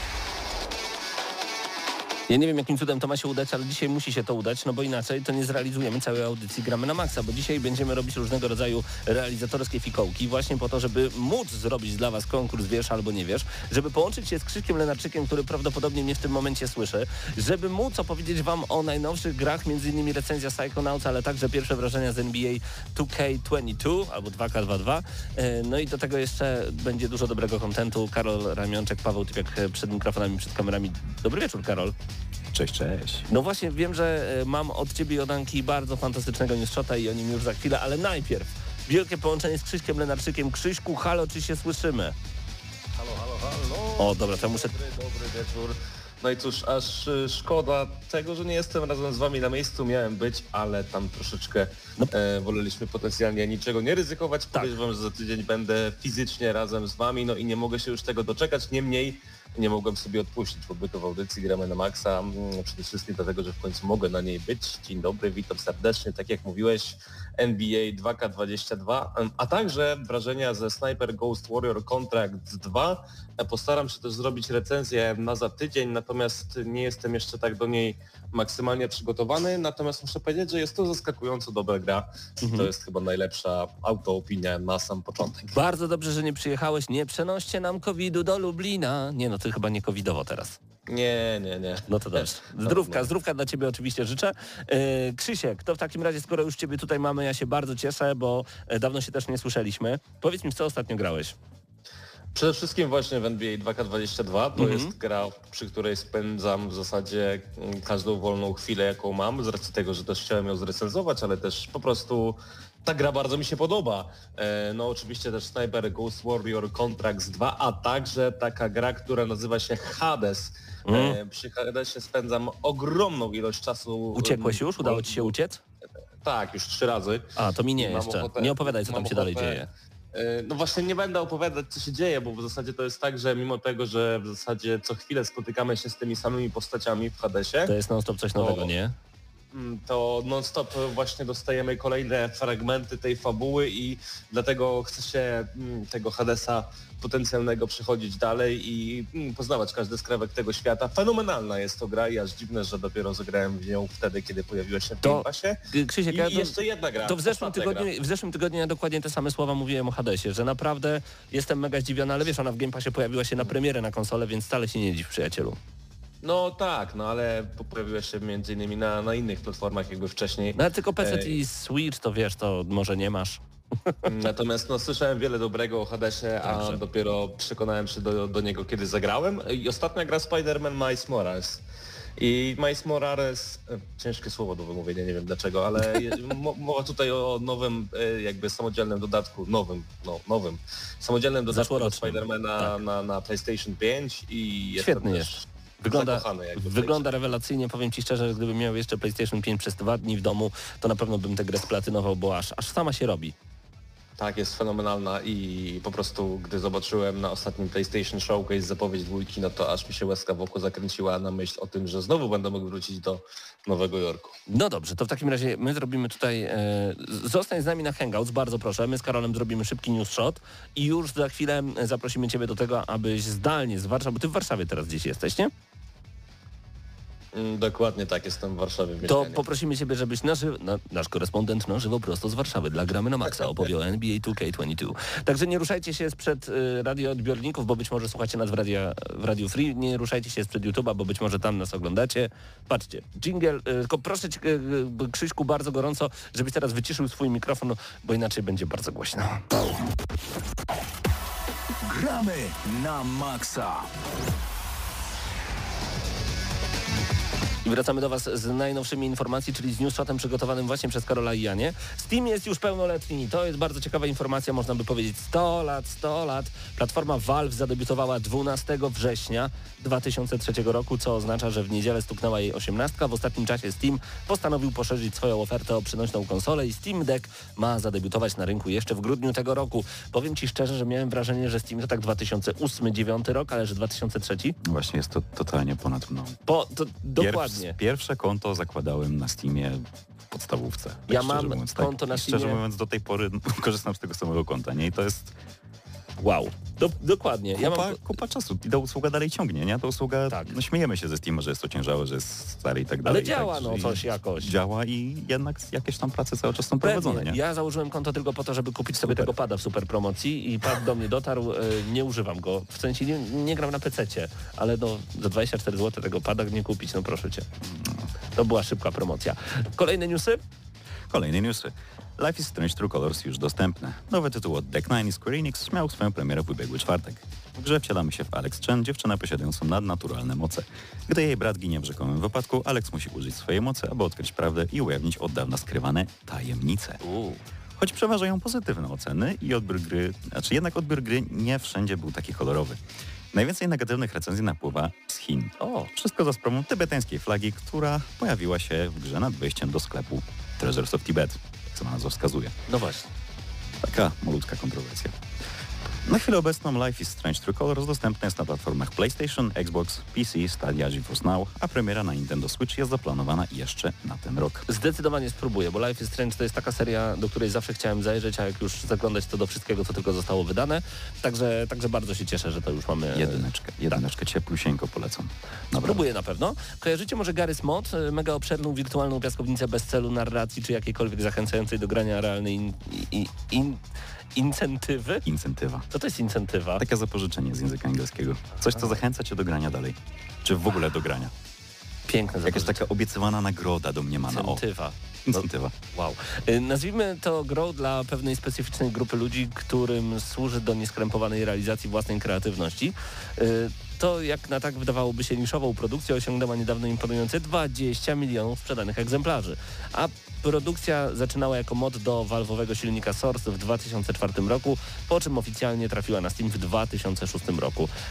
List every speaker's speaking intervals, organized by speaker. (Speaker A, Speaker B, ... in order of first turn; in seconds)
Speaker A: 2.3-31.9, 33.3-42.2, 44.0-44.7, 82.4-82.7, 85.5-90.6, 91.9-101.4, 104.6-104.9, 120.9-121.2, 124.1-125.6, 127.4-129.7, 137.7-138.9, 155.0-165.6, 170.6-174.1, 176.4-176.8, 191.5-192.8, 194.8-203.4, 214.5-225.5, 229.0-249.4, 257.6-284.6, 286.5-287.8, 291.1-292.6, 296.2-298.0, 300.3-300.6, 303.1-304.5, 306.8-317.5, 318.4-320.4, 337.0-337.4, 345.6-345.9, 352.7-353.1, 364.7-374.0, 375.8-383.8, 384.4-385.2, 385.9-386.8, 392.1-392.9, 394.3-417.9
Speaker B: 32.5-33.3, 284.6-286.4, 287.2-295.4, 297.6-307.4, 309.0-309.3, 321.1-337.0, 337.8-352.6, 353.8-355.2, 356.1-364.7, 373.1-376.0, 385.2-385.9, 386.8-391.3, 392.4-394.6, 395.2-395.8
Speaker C: 43.0-85.6, 90.9-93.1, 102.3-125.3, 126.2-137.7, 138.4-138.7, 139.5-155.6, 156.1-157.9, 166.2-171.4, 174.0-181.6, 182.2-197.1, 204.2-214.4, 227.3-229.4
Speaker D: 251.8-253.9